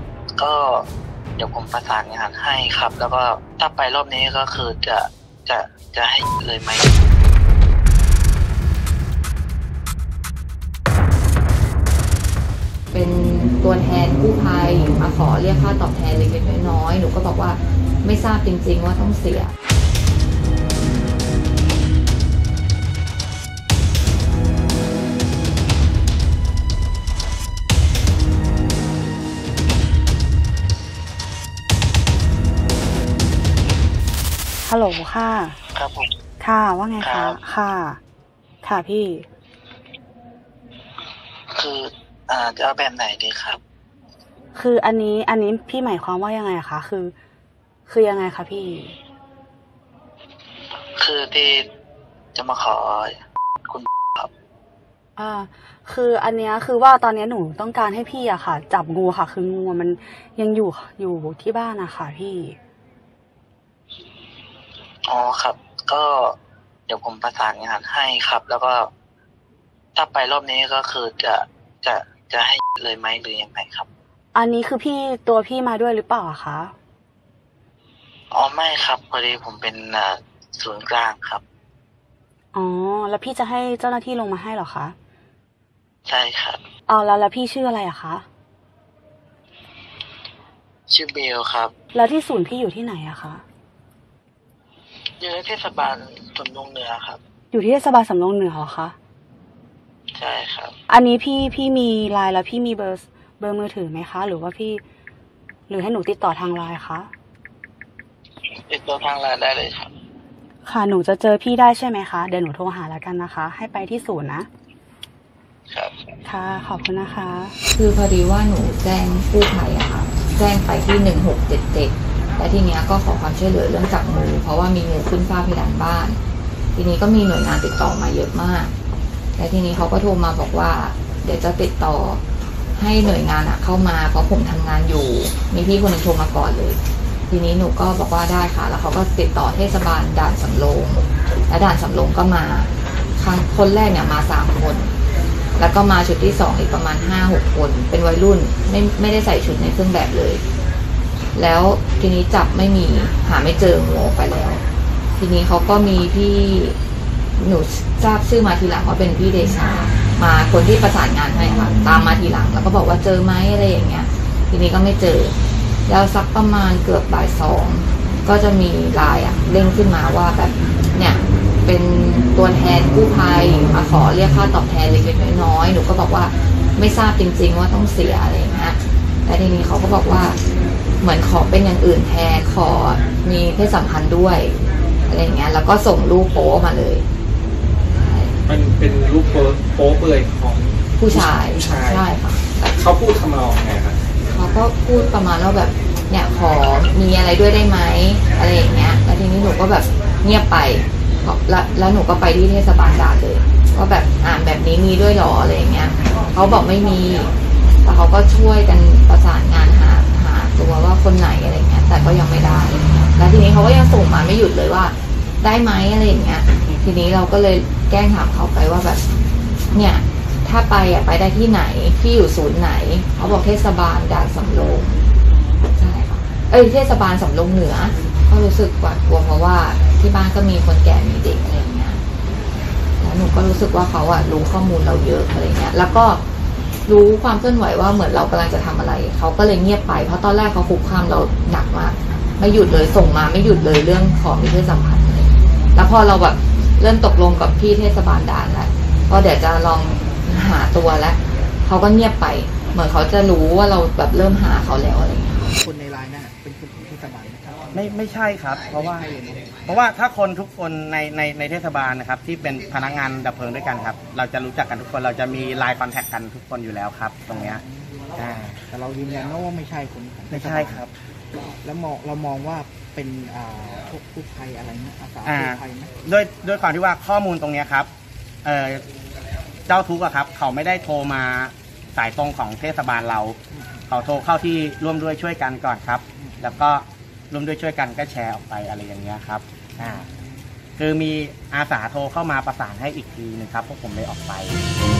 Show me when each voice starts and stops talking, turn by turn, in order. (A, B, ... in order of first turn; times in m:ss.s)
0:00.4-0:00.8 A
0:01.4-0:06.9 A
0:12.9-0:19.5 B
0:34.6-0:35.6 C
0:35.7-0:36.1 A
0:36.4-0:38.0 C
0:37.0-0:37.4 A
0:38.6-0:39.3 C
0:41.5-0:43.6 A
0:44.5-0:47.1 C
0:47.8-0:49.0 C
0:51.0-0:51.6 A
0:52.3-0:53.1 A
0:53.7-0:54.3 A
0:55.2-1:02.6 C
1:05.0-1:06.3 A
1:06.9-1:08.9 A
1:10.0-1:13.9 A
1:14.3-1:16.7 C
1:18.3-1:21.4 A
1:22.5-1:25.0 C
1:26.1-1:26.6 A
1:26.9-1:28.3 C
1:30.9-1:31.7 A
1:31.9-1:33.4 C
1:35.2-1:37.2 A
1:37.5-1:39.0 C
1:40.1-1:40.7 A
1:40.9-1:44.8 C
1:45.7-1:47.1 C
1:48.7-1:49.9 A
1:50.6-1:54.5 C
1:55.7-1:56.0 A
1:56.2-1:57.5 C
1:57.7-2:06.2 B
2:06.7-2:08.7 B
2:09.4-2:12.2 B
2:12.8-2:24.9 B
2:25.6-2:30.4 B
2:31.3-2:34.6 B
2:35.2-2:36.8 B
2:37.4-2:45.3 B
2:45.9-3:00.4 B
3:01.0-3:07.0 B
3:07.9-3:08.3 B
3:08.5-3:12.0 D
3:11.0-3:12.8 B
3:12.8-3:14.0 D
3:14.3-3:27.3 B
3:27.8-3:39.0 B
3:39.7-3:45.0 B
3:45.8-3:52.0 B
3:53.0-3:56.2 B
3:56.9-4:15.5 B
4:15.6-4:18.0 E
4:17.7-4:19.1 F
4:18.7-4:19.6 E
4:19.6-4:27.6 F
4:27.3-4:28.0 E
4:28.1-4:28.6 F
4:28.7-4:30.9 E
4:30.3-4:30.9 F
4:31.6-4:36.0 E
4:35.2-4:37.9 F
4:38.4-4:38.8 F
4:39.7-4:43.4 F
4:43.5-4:43.8 E
4:43.9-4:50.0 F
4:46.2-4:46.4 E
4:49.8-4:50.2 E
4:50.8-4:54.6 F